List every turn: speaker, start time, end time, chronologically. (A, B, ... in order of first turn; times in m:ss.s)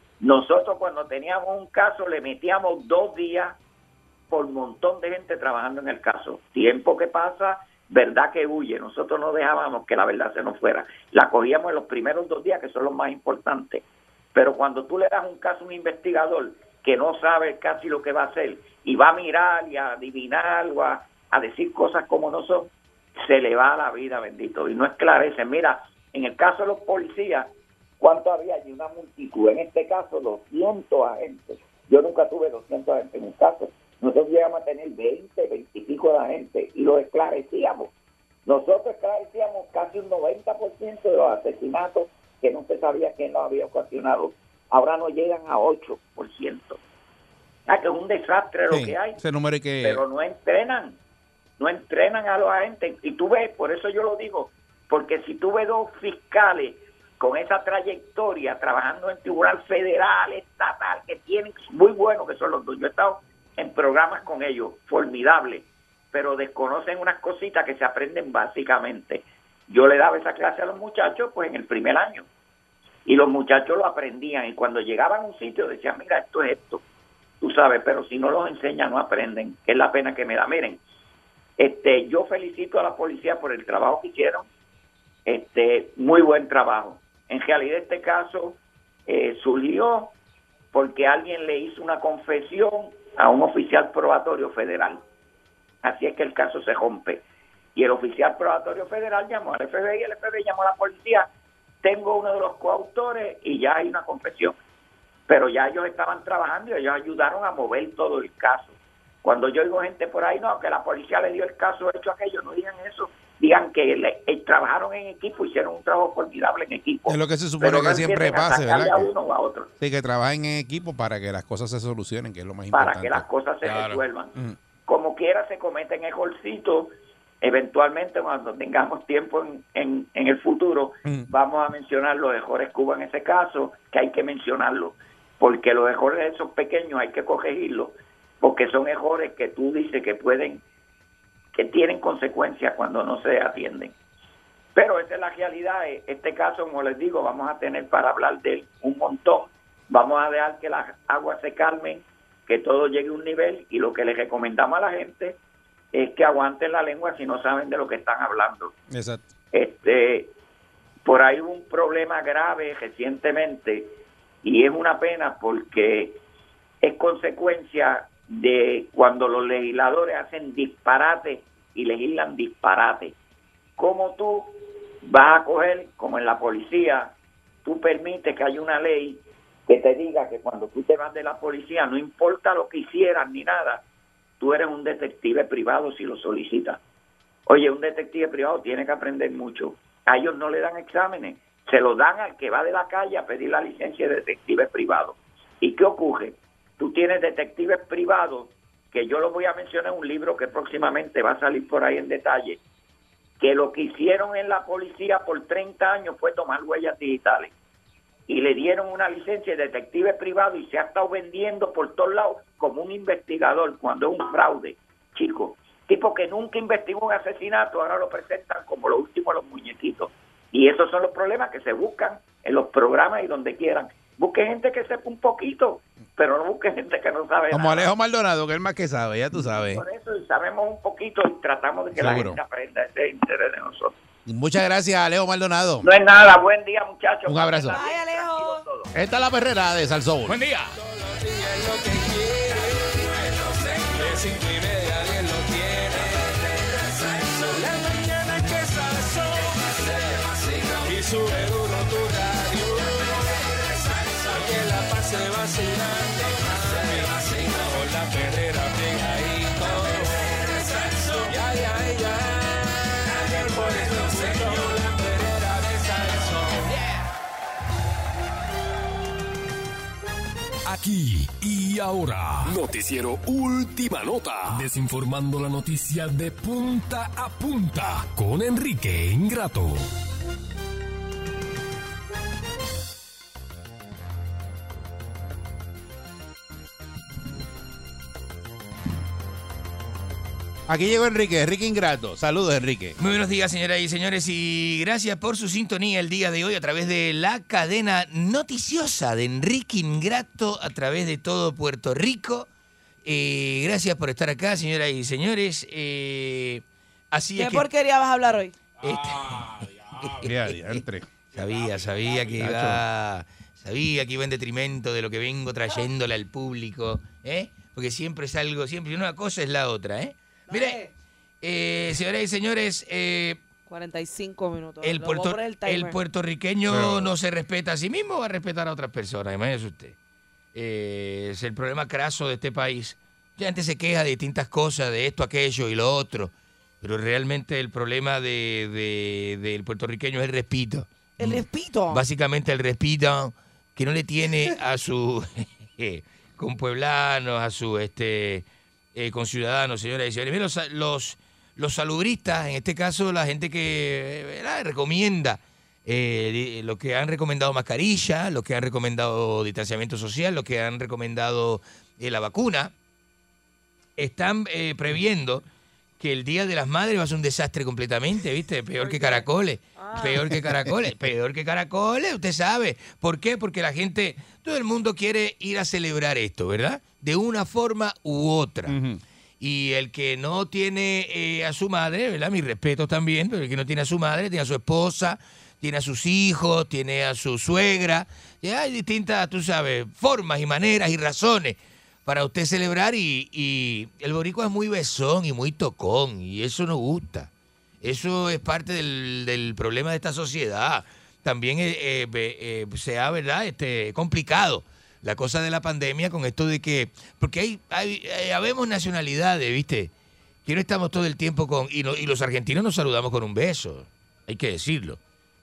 0:00.2-0:03.6 A
0:04.3-0:13.8 A
0:14.3-0:37.9 A
0:38.4-0:46.8 A
0:47.7-0:49.2 A
0:48.7-0:50.0 B
0:49.8-0:51.0 A
0:51.6-1:12.3 A
1:13.0-1:16.8 A
1:17.4-1:20.8 A
1:21.6-1:24.5 A
1:25.2-1:30.1 A
1:30.7-1:35.0 A
1:35.8-1:37.2 A
1:37.7-1:41.3 A
1:41.8-1:44.5 A
1:45.3-1:59.7 A
1:57.1-1:59.1 B
1:59.8-2:03.2 B
2:02.7-2:04.3 A
2:03.6-2:04.0 C
2:04.9-2:06.9 A
2:07.4-2:20.6 A
2:21.5-2:23.9 A
2:24.7-2:35.4 A
2:35.9-2:38.7 A
2:38.9-2:39.2 B
2:39.5-2:40.3 A
2:41.0-2:43.9 A
2:44.4-2:46.2 A
2:46.8-2:53.1 A
2:53.8-2:57.1 A
2:57.6-3:03.8 A
3:04.4-3:06.8 A
3:07.5-3:22.6 A
3:23.4-3:27.5 A
3:28.3-3:47.9 A
3:47.5-3:49.8 B
3:49.4-3:54.0 A
3:52.0-3:52.4 B
3:54.2-3:55.9 B
3:55.8-3:58.9 A
3:57.2-3:57.8 B
3:57.7-3:58.6 D
3:58.9-4:00.4 B
4:00.3-4:03.0 C
4:03.7-4:06.2 C
4:07.5-4:09.3 C
4:10.8-4:12.6 C
4:14.2-4:20.4 C
4:18.8-4:19.6 E
4:21.0-4:22.0 C
4:21.5-4:22.4 E
4:23.3-4:24.8 C
4:23.6-4:26.6 E
4:30.6-4:39.9 F
4:50.7-4:53.0 B
4:53.0-5:02.5 C
5:03.0-5:07.7 C
5:07.4-5:08.5 D
5:08.8-5:20.8 C
5:10.2-5:11.1 B
5:12.3-5:12.8 B
5:20.5-5:20.9 D
5:21.4-5:23.4 C
5:23.7-5:26.0 D
5:24.8-5:29.9 C
5:26.7-5:27.1 B
5:30.5-6:02.7 C
5:41.2-5:42.0 D
6:04.0-6:05.4 C
6:06.0-6:18.8 C
6:08.8-6:10.2 D
6:18.7-6:19.0 B
6:19.4-6:37.3 C
6:37.8-6:49.9 C
6:50.4-6:55.0 C